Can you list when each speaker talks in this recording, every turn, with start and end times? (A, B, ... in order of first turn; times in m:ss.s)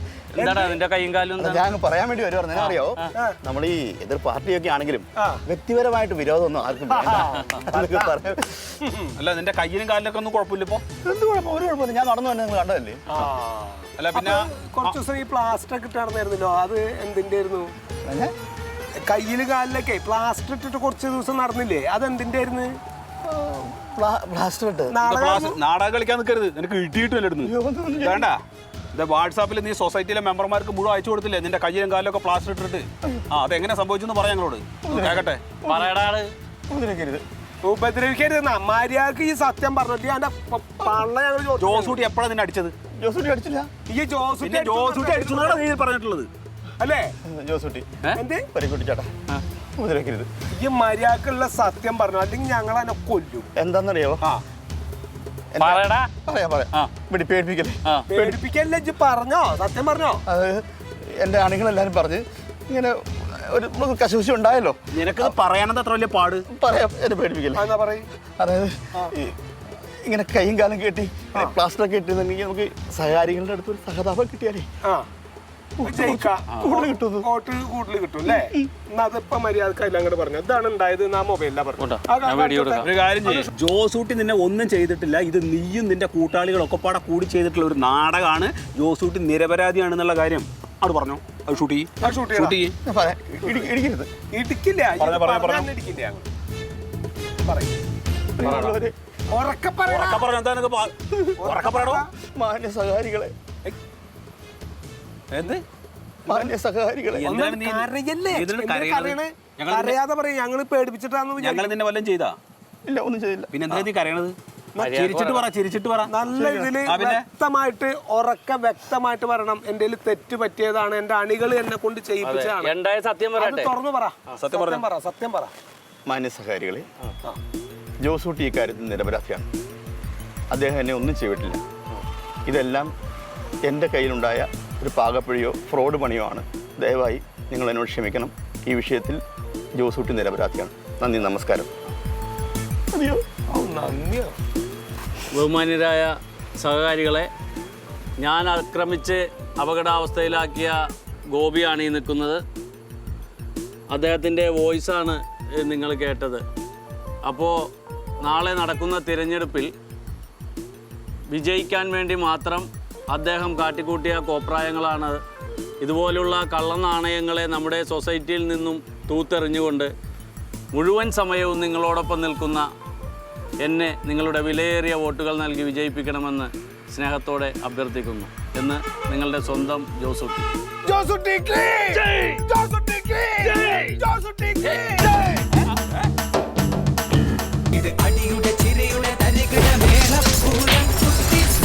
0:00.3-0:01.7 A
0:00.4-0:00.8 B
0:01.4-0:08.7 C
0:02.5-0:03.1 A
0:06.9-0:08.2 B
0:08.8-0:09.1 B
0:09.2-0:10.8 D
0:11.0-0:13.0 C
0:13.1-0:17.7 B
0:14.0-0:15.0 D
0:18.0-0:18.3 C
0:19.0-0:22.8 B
0:23.2-0:25.0 C
0:24.9-0:25.6 B
0:25.0-0:28.4 D
0:27.4-0:28.3 C
0:28.9-0:35.4 D
0:34.8-0:35.9 C
0:35.6-0:36.3 A
0:36.7-0:37.2 C
0:37.6-0:42.0 B
0:41.6-0:42.7 D
0:43.0-0:43.7 C
0:43.9-0:45.6 B
0:44.4-0:46.3 D
0:46.8-0:47.2 B
0:47.2-0:47.9 C
0:48.1-0:48.5 B
0:48.5-0:49.1 C
0:49.8-0:50.3 C
0:50.5-0:53.5 B
0:53.6-0:54.2 C
0:55.5-0:58.4 C
0:55.6-0:56.1 A
0:58.1-1:00.2 B
1:00.2-1:05.4 C
1:04.9-1:06.4 D
1:06.5-1:07.6 C
1:07.5-1:08.1 B
1:08.4-1:09.4 C
1:10.0-1:14.7 C
1:15.8-1:17.3 C
1:15.8-1:23.5 B
1:18.3-1:18.7 C
1:21.8-1:22.9 A
1:22.8-1:32.7 D
1:32.0-1:32.6 B
1:32.8-1:34.1 C
1:34.3-1:36.3 B
1:35.0-1:35.7 D
1:37.4-1:37.8 B
1:38.4-1:38.9 C
1:38.4-1:38.8 D
1:38.4-1:38.7 B
1:39.3-1:40.3 B
1:39.9-1:42.0 D
1:41.1-1:41.4 C
1:41.4-1:42.1 B
1:42.2-1:43.3 C
1:45.3-1:45.6 D
1:46.2-1:47.3 C
1:47.1-1:50.0 D
1:47.2-1:51.8 B
1:51.4-1:52.4 D
1:52.8-1:53.8 C
1:53.5-1:54.3 D
1:54.8-1:55.4 A
1:54.8-1:56.2 D
1:56.1-2:02.7 B
1:56.3-1:56.7 C
1:56.7-1:57.2 D
2:02.2-2:03.7 A
2:03.4-2:05.5 B
2:04.3-2:04.8 D
2:06.1-2:06.8 C
2:08.0-2:09.5 C
2:10.5-2:11.6 C
2:12.4-2:12.9 C
2:13.6-2:19.2 C
2:19.8-2:21.7 C
2:22.9-2:23.3 C
2:23.5-2:24.3 B
2:25.3-2:27.3 A
2:28.2-2:30.7 A
2:31.3-2:32.4 A
2:33.9-2:36.4 A
2:37.2-2:37.6 A
2:38.2-2:39.7 A
2:41.3-2:45.2 A
2:45.8-2:49.9 A
2:50.7-2:52.7 A
2:53.6-3:00.5 A
3:00.8-3:05.6 B
3:07.7-3:11.0 B
3:09.4-3:09.9 A